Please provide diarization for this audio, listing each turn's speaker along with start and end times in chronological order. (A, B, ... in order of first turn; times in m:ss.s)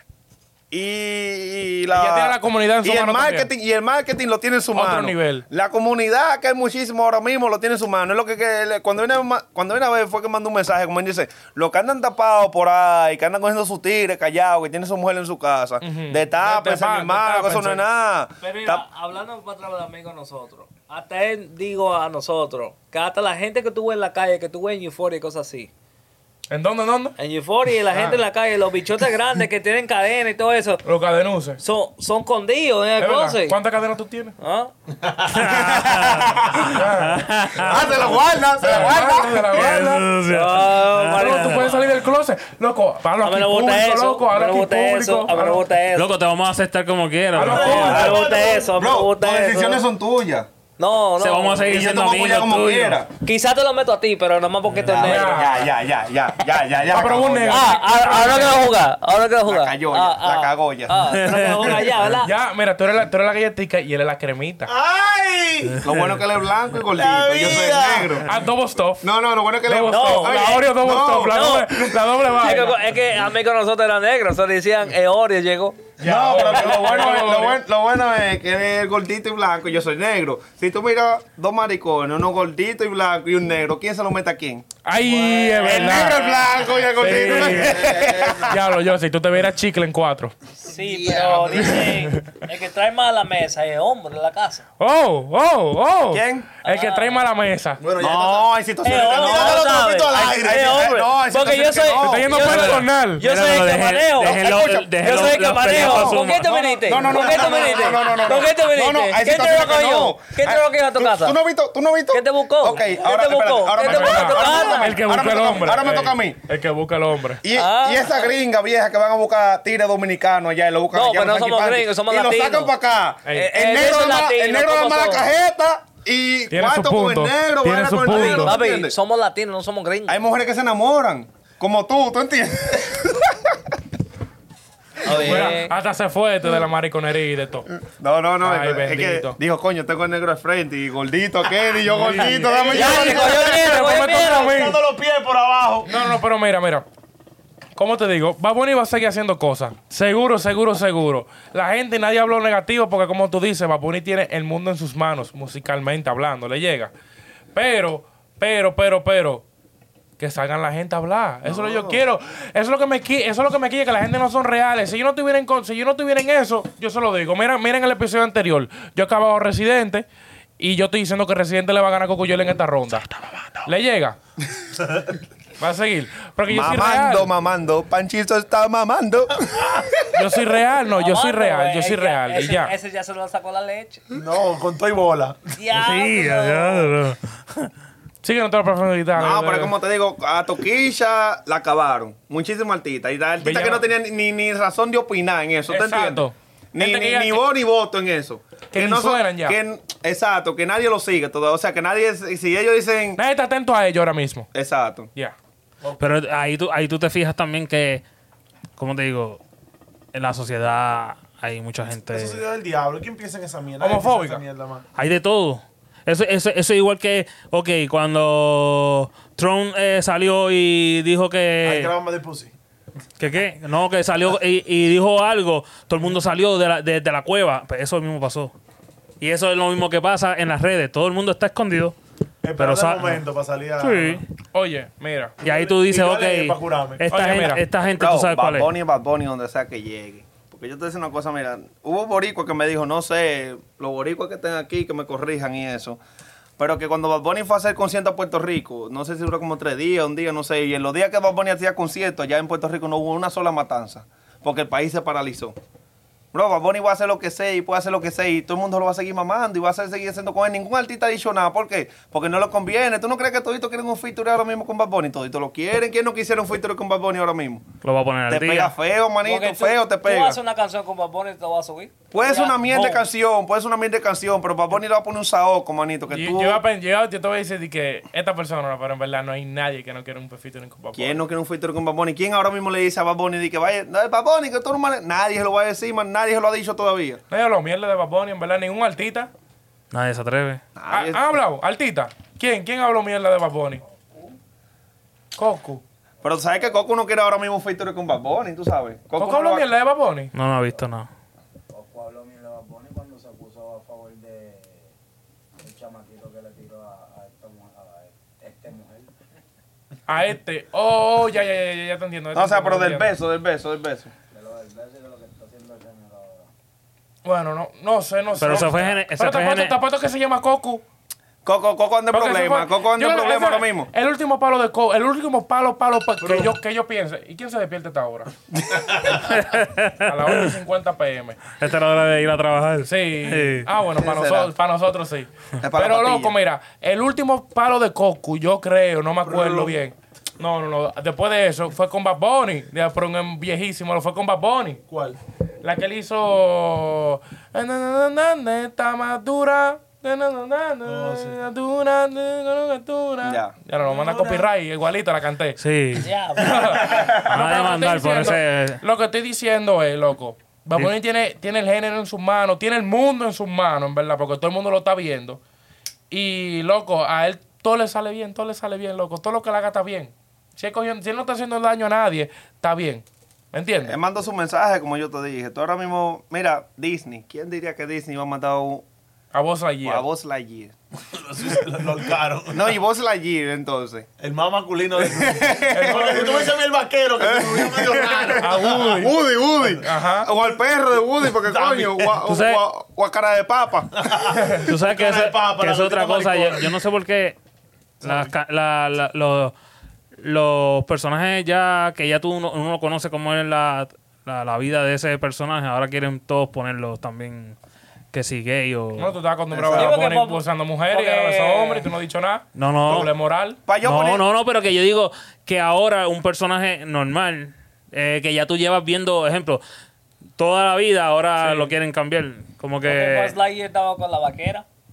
0:00.7-0:18.8 A
0:01.9-0:03.5 B
0:04.7-0:05.4 B
0:15.8-0:17.8 B
0:18.4-0:25.7 C
0:26.5-0:27.1 B
0:27.2-0:30.8 C
0:27.9-0:28.2 A
0:30.8-0:31.6 B
0:31.6-0:33.6 C
0:33.0-0:34.3 B
0:34.4-0:34.7 C
0:35.3-0:38.1 D
0:35.4-0:36.7 A
0:36.7-0:37.2 B
0:37.6-0:39.7 A
0:38.6-0:40.1 B
0:38.6-0:39.0 D
0:39.5-0:41.7 D
0:40.3-0:41.9 C
0:41.1-0:45.6 B
0:43.2-0:46.1 C
0:45.9-0:48.2 D
0:47.4-0:48.0 B
0:47.4-0:48.7 E
0:47.5-0:49.8 C
0:47.8-0:50.5 A
0:50.8-0:51.8 C
0:51.2-0:53.0 D
0:51.6-0:53.1 A
0:53.2-0:55.5 C
0:54.8-0:57.8 A
0:54.9-0:55.7 B
0:56.8-0:58.7 B
0:57.5-1:02.3 C
0:59.4-1:01.2 A
1:01.1-1:02.0 D
1:02.2-1:04.7 B
1:04.6-1:05.8 E
1:05.8-1:08.2 A
1:06.9-1:08.2 E
1:08.2-1:09.1 B
1:09.0-1:11.6 A
1:09.6-1:12.7 B
1:09.9-1:10.7 C
1:11.2-1:15.9 C
1:16.0-1:17.6 B
1:16.0-1:24.6 A
1:24.8-1:26.2 B
1:25.0-1:26.5 C
1:25.6-1:28.5 A
1:27.0-1:27.9 B
1:27.6-1:28.5 E
1:28.4-1:30.3 B
1:30.6-1:34.6 C
1:30.8-1:31.8 E
1:34.8-1:37.8 B
1:36.1-1:36.5 A
1:36.6-1:37.2 C
1:37.8-1:40.8 E
1:38.0-1:42.8 A
1:38.8-1:44.5 C
1:42.0-1:43.2 B
1:43.2-1:46.8 D
1:44.2-1:45.0 A
1:45.0-1:51.4 C
1:45.6-1:56.4 A
1:46.9-1:47.9 E
1:52.1-1:55.0 C
1:53.8-1:57.4 B
1:57.4-2:08.9 A
1:57.5-1:58.3 C
2:00.9-2:02.7 C
2:03.2-2:03.5 B
2:03.3-2:05.2 C
2:06.5-2:08.6 B
2:08.1-2:10.2 C
2:10.1-2:13.6 A
2:15.0-2:15.7 C
2:15.0-2:15.5 A
2:15.1-2:17.7 B
2:17.7-2:23.5 A
2:18.4-2:19.4 B
2:21.9-2:24.8 B
2:22.3-2:26.0 E
2:22.6-2:24.5 C
2:25.8-2:26.8 B
2:27.8-2:36.9 B
2:37.5-2:39.4 B
2:40.2-2:50.0 B
2:41.4-2:42.0 A
2:50.6-2:53.1 B
2:53.6-2:54.2 B
2:55.6-2:57.3 B
2:56.5-3:00.0 A
3:00.1-3:02.7 B
3:00.9-3:04.1 C
3:04.1-3:05.6 E
3:05.6-3:06.9 C
3:05.7-3:07.7 D
3:08.2-3:09.7 B
3:09.2-3:23.2 A
3:13.4-3:13.8 B
3:15.7-3:17.4 B
3:18.7-3:19.6 B
3:23.2-3:24.5 B
3:24.5-3:25.1 A
3:25.8-3:26.1 E
3:26.0-3:28.0 D
3:28.8-3:29.4 D
3:30.1-3:32.4 D
3:31.9-3:34.8 E
3:33.8-3:34.4 B
3:35.0-3:41.9 D
3:41.6-3:42.5 E
3:43.2-3:48.5 D
3:49.2-3:52.0 D
3:52.4-3:54.2 E
3:52.6-3:53.2 D
3:53.8-3:54.2 D
3:54.5-3:55.3 B
3:55.4-3:57.1 E
3:55.4-3:58.7 D
3:57.1-3:57.6 B
3:58.0-4:06.0 A
4:06.6-4:15.6 A
4:16.3-4:27.6 A
4:27.8-4:28.7 D
4:28.3-4:30.4 A
4:29.2-4:33.0 C
4:32.1-4:36.6 A
4:36.1-4:41.2 B
4:40.9-4:47.2 A
4:47.3-4:49.3 B
4:49.9-4:50.6 D
4:50.8-4:51.3 A
4:50.9-4:53.8 B
4:53.9-4:54.4 F
4:55.4-4:55.8 B
4:56.2-4:59.7 A
4:59.1-5:00.3 B
5:00.3-5:01.1 D
5:01.7-5:04.9 F
5:05.6-5:09.1 F
5:10.1-5:13.1 B
5:12.3-5:14.1 A
5:14.3-5:16.5 F
5:17.2-5:20.8 B
5:18.4-5:19.7 D
5:21.4-5:23.9 A
5:22.1-5:28.3 B
5:26.2-5:26.5 E
5:29.1-5:30.5 D
5:30.0-5:31.4 B
5:31.6-5:33.6 D
5:32.8-5:44.8 B
5:34.0-5:34.5 A
5:35.6-5:36.4 A
5:39.2-5:39.7 E
5:44.9-5:45.2 E
5:45.6-5:55.6 B
5:50.8-5:51.4 E
5:53.2-5:53.5 A
5:53.8-5:54.5 E
5:55.6-5:56.1 D
5:56.0-5:57.1 C
5:56.4-6:05.4 B
5:56.6-5:57.0 E
5:57.2-5:58.8 D
6:06.1-6:14.0 B
6:13.8-6:18.8 A
6:19.3-6:20.0 B
6:19.8-6:20.7 A
6:21.1-6:22.7 E
6:22.5-6:24.1 A
6:24.2-6:28.9 E
6:25.0-6:26.4 A
6:25.7-6:26.5 B
6:27.2-6:34.1 A
6:28.3-6:29.2 B
6:29.8-6:30.3 B
6:31.4-6:32.2 E
6:32.3-6:32.6 D
6:34.0-6:36.7 E
6:34.6-6:37.4 D
6:38.0-6:39.5 D
6:38.0-6:38.3 E
6:40.2-6:47.6 D
6:48.1-6:49.2 D
6:49.0-6:53.6 B
6:49.6-6:49.9 A
6:49.7-6:51.9 C
6:52.5-6:53.1 D
6:53.6-6:54.2 A
6:53.8-6:59.6 D
7:00.4-7:03.3 D
7:01.4-7:01.7 B
7:02.8-7:04.6 C